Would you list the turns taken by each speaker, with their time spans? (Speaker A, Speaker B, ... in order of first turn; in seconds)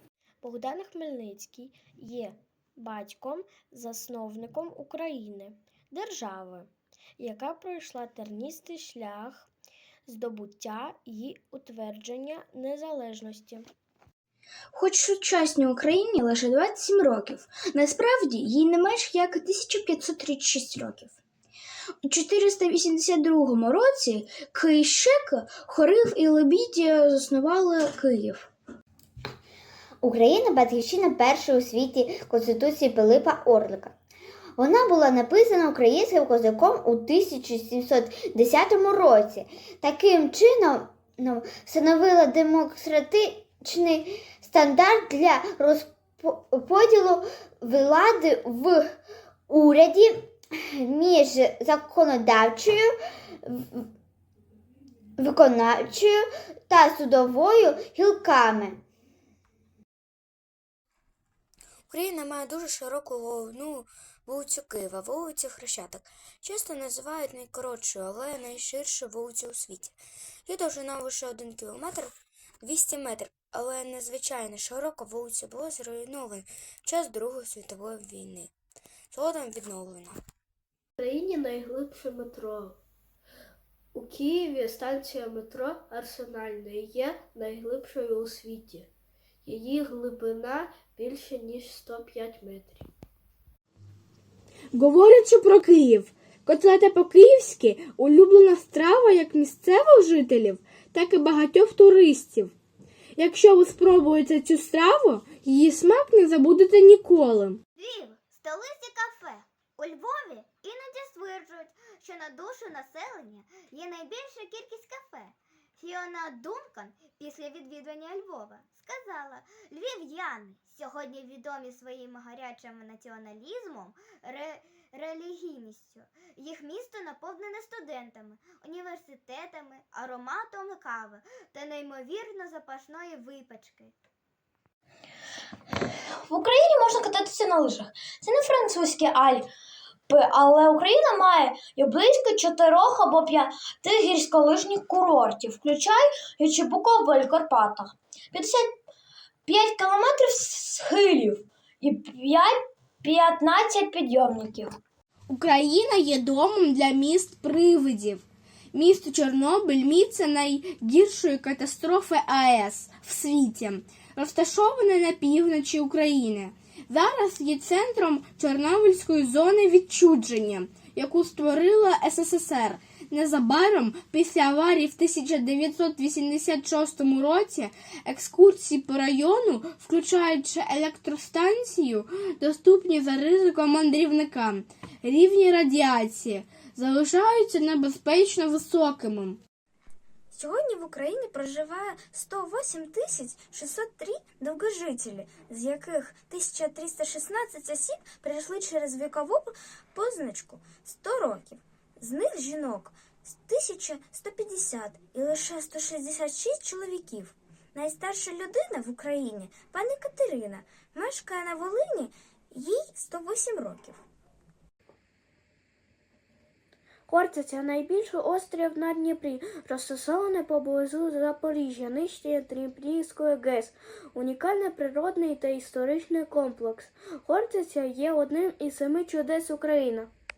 Speaker A: 14.7-21.1, 22.0-28.5, 136.2-139.5, 140.1-148.8, 149.5-154.8
Speaker B: 30.0-33.9, 34.6-49.0, 49.5-52.9, 53.4-53.9, 55.2-58.8
Speaker C: 34.6-35.2, 107.8-133.9
Speaker D: 61.9-69.9, 70.5-72.1, 72.6-78.5, 79.1-80.2
Speaker E: 66.1-67.0, 67.8-69.9, 71.8-72.1, 72.8-76.1, 77.0-78.5, 79.2-79.7, 190.3-214.0
Speaker F: 81.0-82.7, 83.9-88.8, 89.5-92.8, 217.1-230.1
Speaker G: 94.7-102.5, 103.2-107.6, 155.3-189.4